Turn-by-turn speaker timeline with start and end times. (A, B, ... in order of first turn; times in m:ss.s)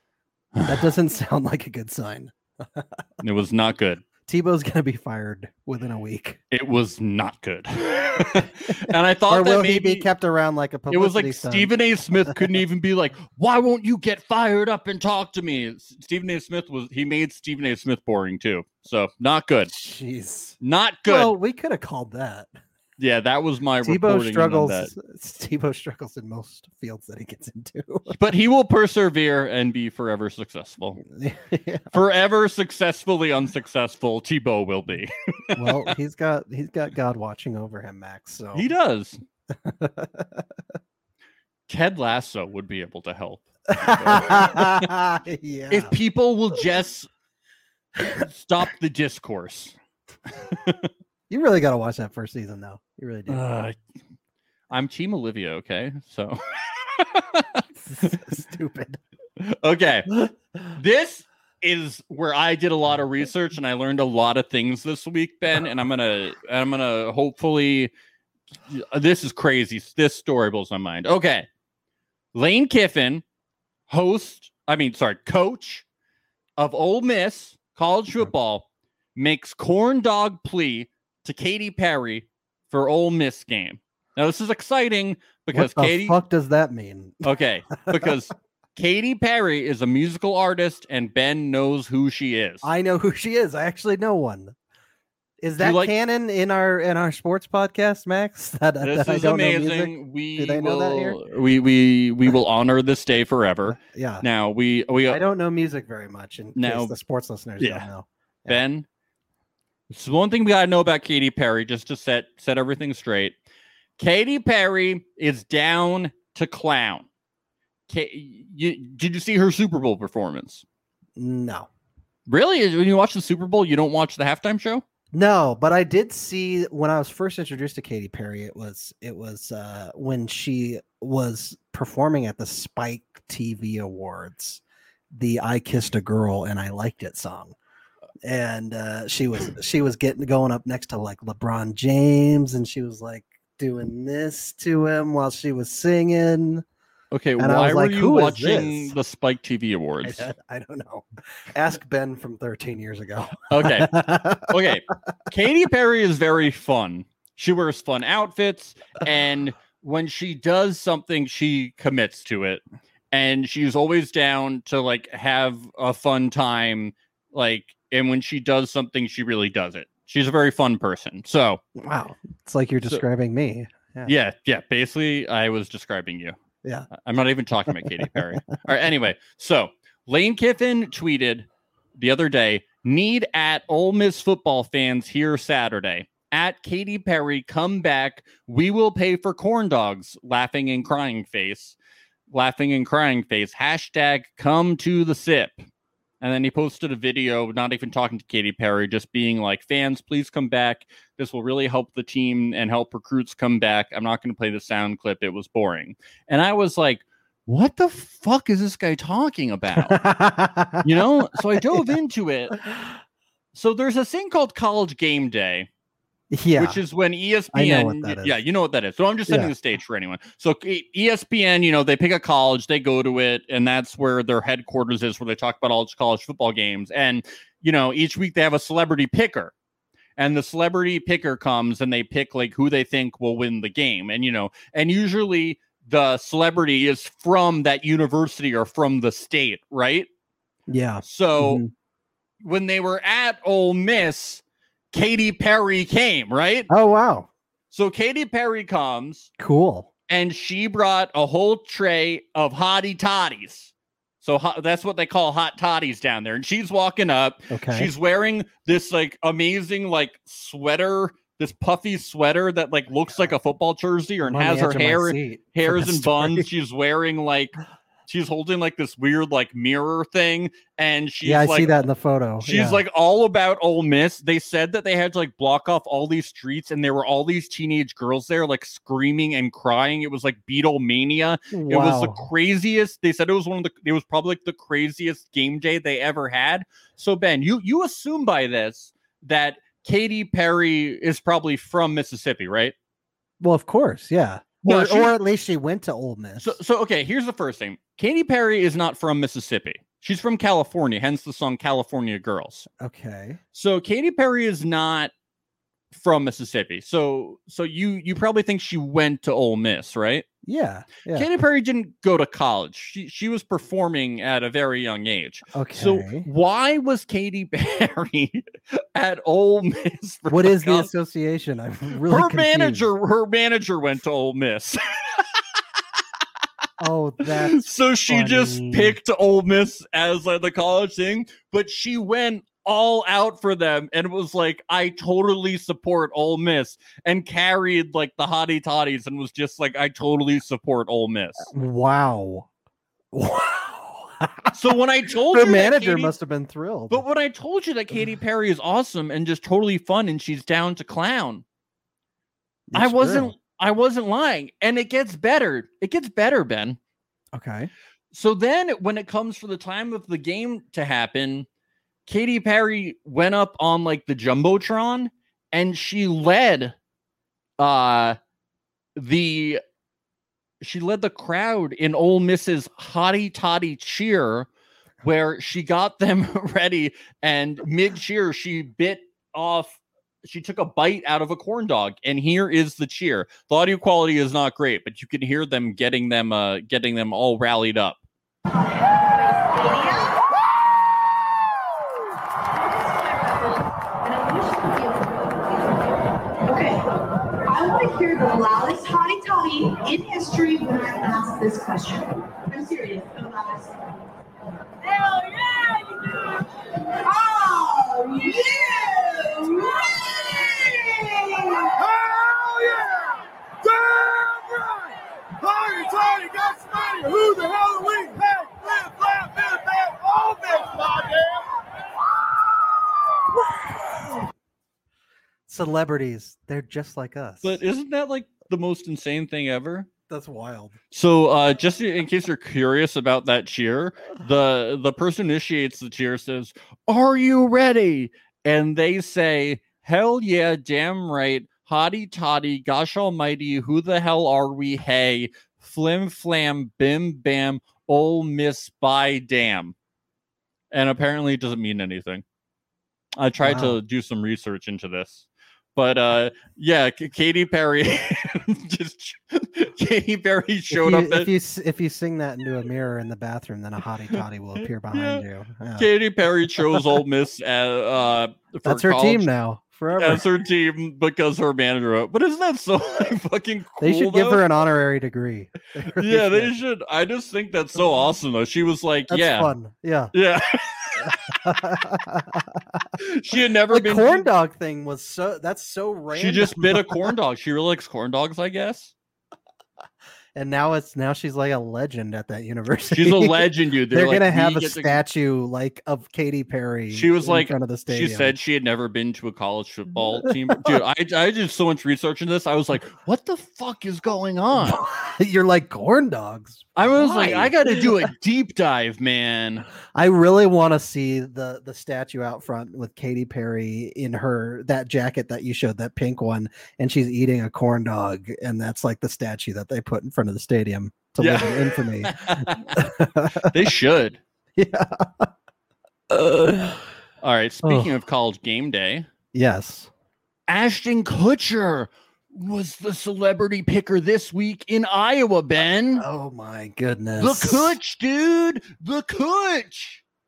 0:00.7-0:03.0 A
0:03.2-0:04.0 B
0:04.3-0:06.4 A
0:06.5-0:10.1 B
0:09.3-0:11.7 A
0:10.9-0:19.7 B
0:19.7-0:22.5 A
0:20.6-0:21.4 B
0:23.0-0:24.9 B
0:23.8-0:28.2 A
0:28.1-0:31.0 B
0:31.0-0:32.0 A
0:31.9-0:35.9 B
0:35.5-0:38.7 A
0:38.6-0:39.2 B
0:39.6-0:40.5 A
0:41.7-0:44.9 B
0:43.7-0:45.9 A
0:45.7-0:47.1 B
0:48.1-0:49.8 B
0:50.4-0:50.9 B
0:51.3-0:53.4 A
0:53.3-0:53.8 B
0:54.7-0:56.4 B
0:57.0-0:58.1 B
0:57.8-0:59.0 A
0:59.4-1:07.9 B
1:08.7-1:11.5 B
1:12.3-1:13.2 B
1:13.9-1:15.8 B
1:16.6-1:26.2 B
1:25.5-1:27.3 A
1:27.2-1:32.7 B
1:27.9-1:28.1 A
1:32.6-1:34.6 A
1:35.4-1:41.2 A
1:35.6-1:35.9 B
1:38.8-1:45.2 B
1:43.7-1:44.3 A
1:45.1-1:48.6 A
1:46.6-1:47.0 B
1:47.6-1:47.9 B
1:48.5-1:48.9 B
1:49.9-1:53.4 B
1:54.0-1:57.1 B
1:57.9-2:00.6 B
2:01.2-2:01.7 A
2:02.3-2:04.8 B
2:05.1-2:14.6 A
2:15.1-2:17.6 A
2:18.2-2:26.6 A
2:27.1-2:30.3 B
2:27.4-2:28.9 A
2:30.0-2:34.7 A
2:33.5-2:34.0 B
2:34.5-2:51.6 B
2:51.8-2:54.1 A
2:54.1-2:56.4 B
2:56.9-3:11.8 B
2:57.7-2:58.4 A
3:12.3-3:15.7 B
3:16.2-3:30.0 B
3:29.7-3:31.9 A
3:30.8-3:32.6 B
3:33.5-3:35.7 B
3:36.3-3:36.8 A
3:36.6-3:49.5 B
3:37.5-3:38.4 A
3:39.3-3:39.5 A
3:50.2-4:00.1 B
4:00.7-4:01.7 A
4:01.0-4:01.6 B
4:02.4-4:06.7 B
4:06.7-4:07.3 A
4:07.7-4:09.3 B
4:09.4-4:09.9 A
4:10.1-4:27.6 B
4:17.5-4:17.9 A
4:24.2-4:26.5 A
4:28.1-4:31.8 B
4:31.2-4:32.8 A
4:32.4-4:52.8 B
4:41.5-4:42.3 A
4:53.4-4:56.6 A
4:54.6-4:55.2 B
4:56.4-5:02.7 B
5:02.8-5:03.4 A
5:03.5-5:05.1 B
5:05.9-5:10.3 B
5:10.4-5:11.3 A
5:11.1-5:20.9 B
5:15.5-5:16.3 A
5:20.3-5:22.9 A
5:22.1-5:25.2 B
5:26.8-5:29.0 A
5:27.3-5:41.5 B
5:41.5-5:42.5 A
5:43.1-5:44.8 A
5:44.5-5:46.1 B
5:45.3-5:47.0 A
5:46.9-5:51.4 B
5:52.7-5:53.3 A
5:52.7-5:56.8 B
5:57.3-5:57.7 A
5:58.1-6:01.5 B
6:02.1-6:06.8 B
6:07.6-6:08.2 B
6:09.0-6:09.6 B
6:10.6-6:14.5 B
6:15.0-6:28.0 B
6:28.6-6:30.2 C
6:32.5-6:36.9 C
6:37.4-6:43.8 C
6:44.8-6:51.8 C
6:51.8-7:01.5 D
7:05.5-7:07.6 A
7:07.4-7:09.9 B
7:10.1-7:10.8 A
7:10.9-7:29.8 B
7:30.7-7:32.2 B
7:33.2-7:41.3 B
7:33.4-7:33.8 A
7:40.7-7:45.9 A
7:44.9-7:45.2 B
7:45.8-7:49.3 B
7:46.6-7:47.0 A
7:48.6-7:50.2 A
7:50.0-7:54.5 B
7:53.8-7:56.5 A
7:55.9-7:59.5 B
7:59.1-8:00.1 A
8:00.1-8:01.3 B
8:01.0-8:02.9 A
8:03.0-8:04.3 B
8:03.7-8:07.1 A
8:06.1-8:08.9 B
8:10.4-8:18.4 A
8:12.9-8:15.0 B
8:16.9-8:24.8 B
8:20.2-8:20.8 A
8:24.6-8:28.1 A
8:26.8-8:29.7 B
8:29.9-8:43.7 A
8:41.2-8:42.9 B
8:43.4-8:44.2 B
8:44.6-8:45.3 A
8:46.1-8:46.8 A
8:47.2-8:49.1 B
8:47.6-8:47.9 A
8:49.3-8:49.9 A
8:50.5-8:56.0 B
8:56.0-8:57.8 A
8:57.2-9:00.0 B